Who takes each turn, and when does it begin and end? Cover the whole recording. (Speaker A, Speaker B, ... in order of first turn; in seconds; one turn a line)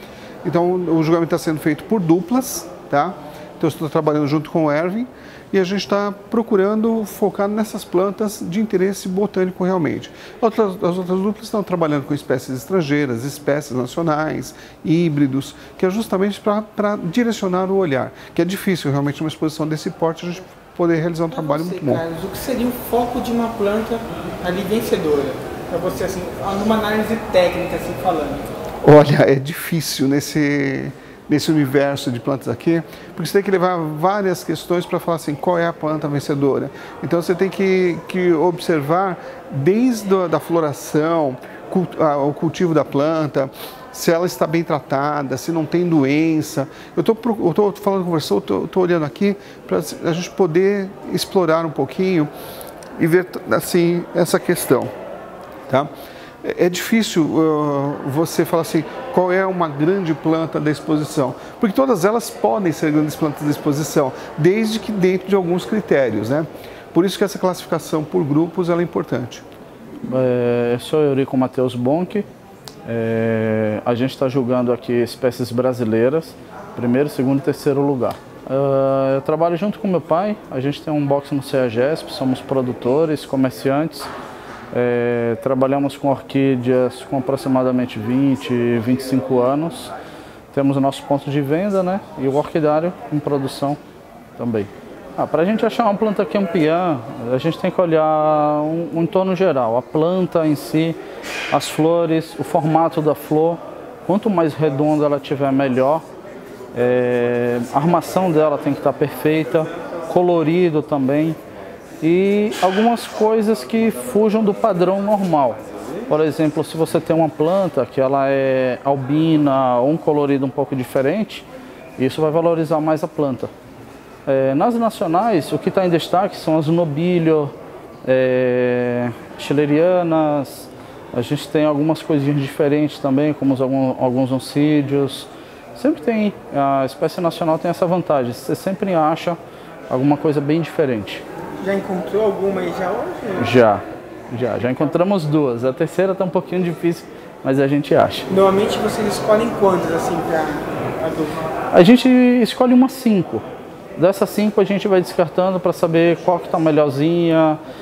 Speaker A: 0.4-22.0
Speaker B: 21.3-28.5
Speaker A: 28.8-52.3
Speaker A: 53.0-54.9
Speaker A: 56.4-69.4
Speaker C: 70.1-72.2
Speaker C: 72.8-84.1
Speaker C: 84.7-89.9
Speaker C: 90.5-93.8
Speaker C: 94.4-101.0
Speaker C: 101.5-106.0
Speaker C: 106.7-111.4
Speaker C: 112.0-121.4
Speaker C: 122.0-123.5
Speaker C: 124.2-139.4
Speaker C: 139.9-141.2
Speaker B: 141.6-143.5
Speaker C: 143.3-148.3
Speaker B: 148.3-151.5
Speaker C: 151.7-153.4
Speaker C: 154.0-157.6